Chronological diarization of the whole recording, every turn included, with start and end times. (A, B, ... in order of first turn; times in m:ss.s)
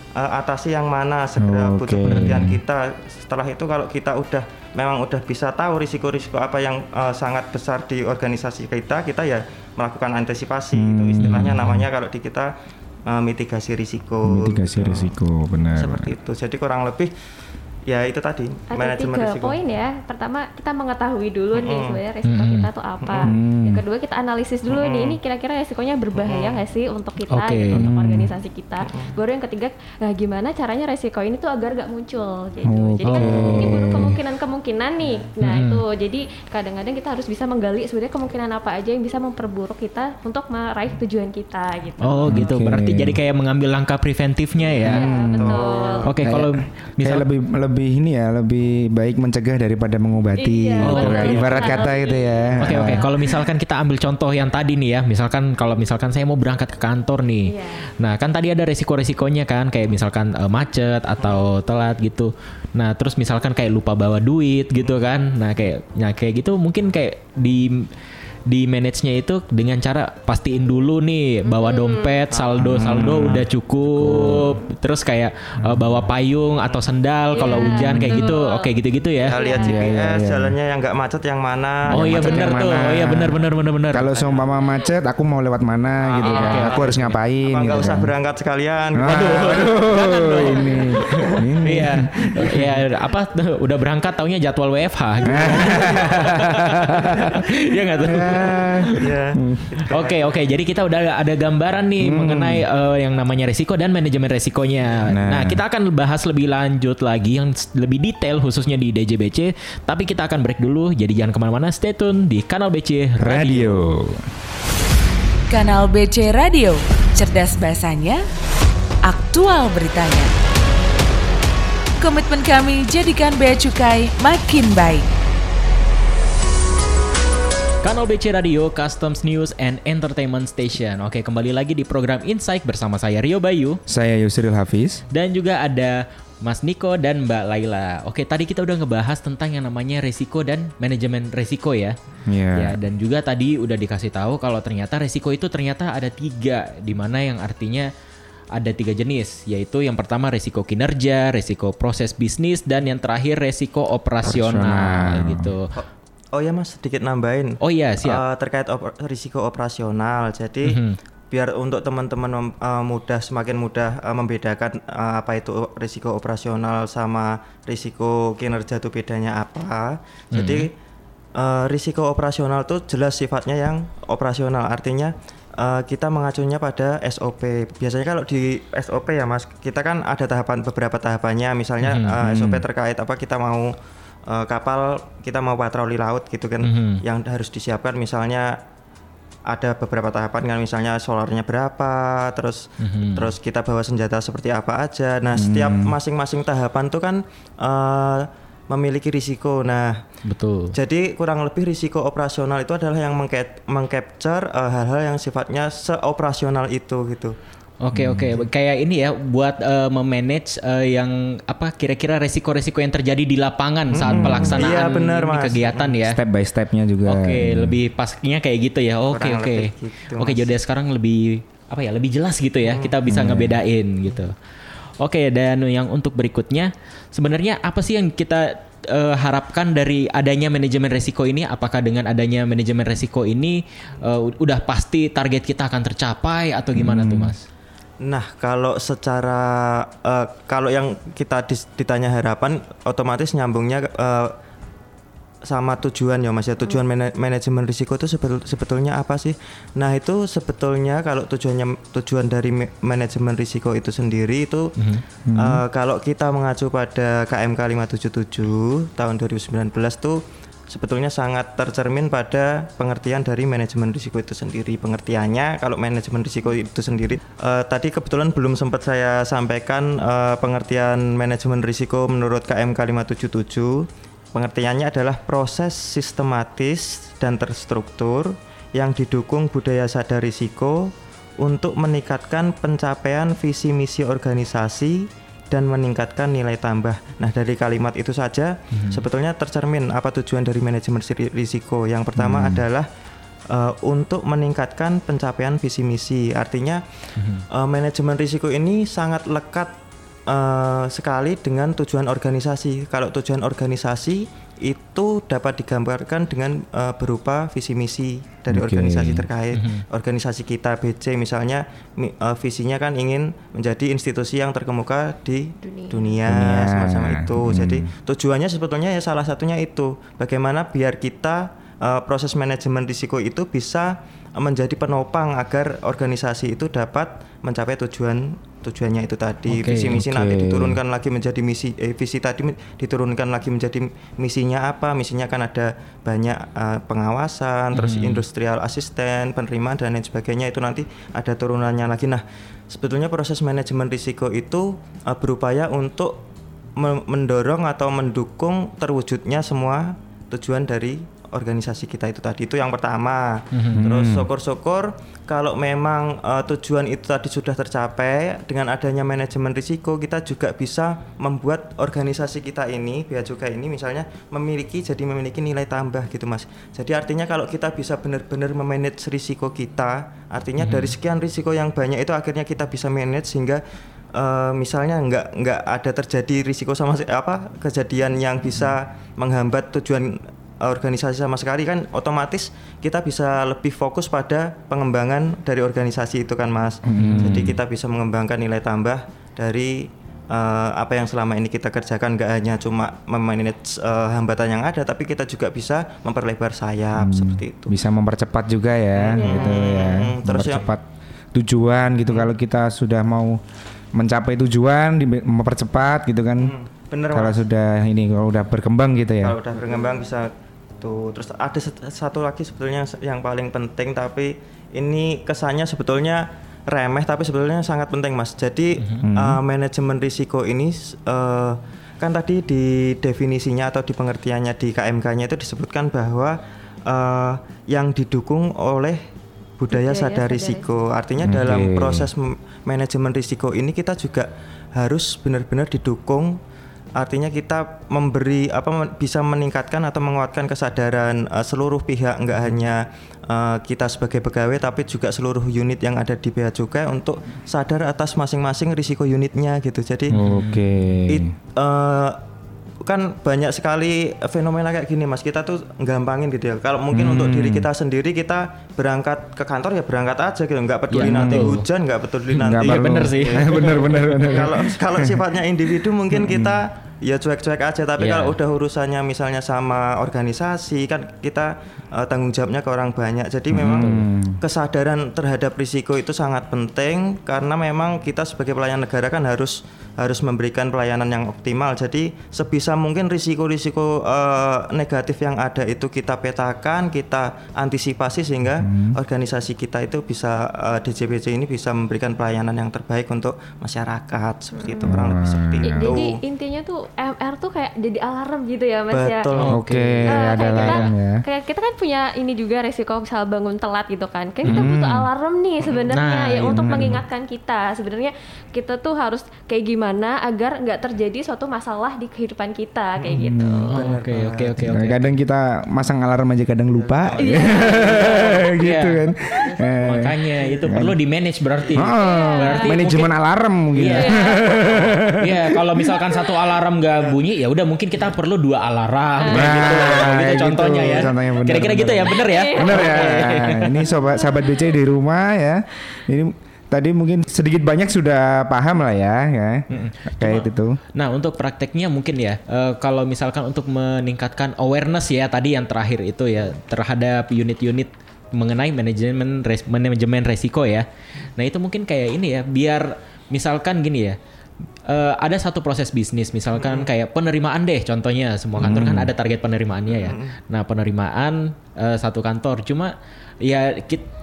0:00.2-0:12.5 A
0:01.4-0:02.6 B
0:02.1-0:02.5 C
0:10.7-0:11.9 B
0:11.2-0:11.6 C
0:13.0-0:15.1 A
0:14.2-0:16.1 B
0:15.7-0:17.1 A
0:17.9-0:19.6 A
0:18.7-0:42.6 D
0:21.5-0:22.0 A
0:22.2-0:22.7 C
0:23.0-0:23.3 A
0:23.2-0:23.8 B
0:24.7-0:25.2 A
0:26.1-0:26.6 A
0:27.3-0:27.8 C
0:27.7-0:28.3 B
0:28.8-0:29.1 A
0:32.6-0:34.2 B
0:33.0-0:34.0 C
0:35.4-0:35.8 C
0:42.0-0:45.0 C
0:42.3-0:43.2 B
0:44.8-0:45.6 B
0:44.8-0:46.1 D
0:44.9-0:46.1 A
0:46.0-0:47.3 C
0:46.2-0:53.0 B
0:50.4-0:53.3 D
0:50.8-0:51.9 C
0:52.6-1:07.9 C
0:57.4-0:57.9 D
1:08.5-1:19.3 C
1:11.4-1:12.2 D
1:12.6-1:14.6 B
1:17.3-1:18.7 D
1:17.7-1:18.2 B
1:19.2-1:23.2 A
1:19.3-1:19.8 D
1:19.6-1:20.5 B
1:21.9-1:24.1 C
1:21.9-1:28.1 B
1:24.0-1:24.4 A
1:26.1-1:29.7 A
1:26.3-1:26.7 D
1:26.3-1:27.0 C
1:29.0-1:32.8 B
1:29.1-1:39.0 C
1:35.3-1:37.2 B
1:35.6-1:35.9 A
1:38.0-1:39.8 B
1:38.9-1:40.4 A
1:39.9-1:53.8 C
1:42.0-1:42.6 B
1:45.1-1:45.6 B
1:53.2-1:54.2 B
1:55.5-1:58.2 E
1:59.0-2:00.3 E
2:02.0-2:05.1 E
2:07.8-2:13.8 C
2:13.9-2:15.0 B
2:15.1-2:21.9 C
2:22.3-2:22.8 B
2:22.6-2:27.9 C
2:28.5-2:35.7 C
2:34.2-2:35.6 B
2:35.8-2:50.7 A
2:37.6-2:38.2 C
2:40.6-2:41.0 C
2:50.3-2:50.7 C
2:51.4-3:03.7 A
3:01.8-3:02.2 C
3:02.2-3:02.6 B
3:04.3-3:08.6 A
3:06.6-3:07.0 C
3:09.5-3:20.0 A
3:12.8-3:13.3 C
3:15.3-3:16.0 B
3:20.2-3:20.7 C
3:20.7-3:27.4 A
3:27.8-3:36.2 C
3:27.9-3:28.4 B
3:33.9-3:36.0 A
3:34.0-3:34.6 B
3:36.0-3:37.8 B
3:37.0-3:44.3 C
3:39.1-3:40.5 A
3:42.6-3:43.0 A
3:43.1-3:43.6 B
3:45.0-3:57.4 C
3:56.7-3:57.3 B
3:58.0-4:04.3 A
4:05.5-4:14.7 A
4:14.8-4:15.0 C
4:15.3-4:15.6 B
4:15.4-4:52.9 A
4:48.7-4:49.0 C
4:52.2-4:52.6 B
4:53.5-4:56.8 A
4:57.2-4:57.4 C
4:57.5-4:59.7 A
5:00.3-5:46.2 A
5:08.5-5:09.2 B
5:09.5-5:09.8 C
5:15.6-5:16.2 D
5:16.3-5:17.9 B
5:29.5-5:30.0 C
5:29.9-5:30.8 B
5:37.7-5:38.2 C
5:46.8-6:13.6 A
5:53.5-5:53.8 C
5:53.7-5:54.3 B
6:10.6-6:10.9 C
6:14.1-6:37.7 A
6:26.8-6:27.6 B
6:27.0-6:27.5 C
6:37.0-6:43.4 B
6:39.0-6:40.6 A
6:39.2-6:39.7 D
6:43.9-6:46.5 B
6:46.4-6:47.4 A
6:47.1-6:49.4 B
6:49.2-7:06.4 A
6:58.8-6:59.0 C
6:59.0-6:59.4 B
7:06.9-7:09.0 A
7:09.6-7:16.4 A
7:09.7-7:10.6 D
7:11.2-7:12.1 B
7:17.0-7:30.2 A
7:30.1-7:30.6 C
7:30.1-7:31.3 B
7:31.1-7:32.2 A
7:32.8-8:16.2 A
7:36.9-7:37.7 B
7:40.9-7:41.6 C
7:40.9-7:41.6 B
7:42.4-7:45.2 B
7:42.4-7:44.4 C
7:46.1-7:46.6 B
7:48.0-7:48.4 C
7:53.5-7:54.4 B
7:53.6-7:54.0 C
8:08.6-8:09.0 B
8:14.6-8:15.0 D
8:14.8-8:16.0 B
8:15.6-8:19.3 D
8:18.9-8:19.6 A
8:19.3-8:20.9 C
8:19.5-8:21.2 B
8:20.1-8:33.7 D
8:24.4-8:25.1 B
8:25.9-8:26.9 C
8:26.4-8:27.0 B
8:33.1-8:33.7 B
8:33.7-8:34.7 A
8:33.7-8:35.0 C
8:34.6-8:41.0 B
8:36.7-8:38.4 A
8:37.2-8:38.2 D
8:38.2-8:39.0 C
8:39.8-8:43.1 C
8:41.7-8:45.5 B
8:41.9-8:42.7 D
8:43.7-8:44.2 C
8:44.0-8:44.6 D
8:44.6-8:44.9 A
8:45.2-8:53.8 C
8:45.9-8:46.2 D
8:49.2-8:49.5 D
8:49.3-8:50.1 A
8:49.3-8:59.6 B
8:52.1-8:53.2 D
8:53.9-8:54.6 D
8:59.7-9:10.8 C
9:00.2-9:00.8 B
9:11.4-9:14.2 C
9:14.9-9:24.1 C
9:16.5-9:16.9 A
9:18.6-9:19.1 B
9:19.9-9:20.3 A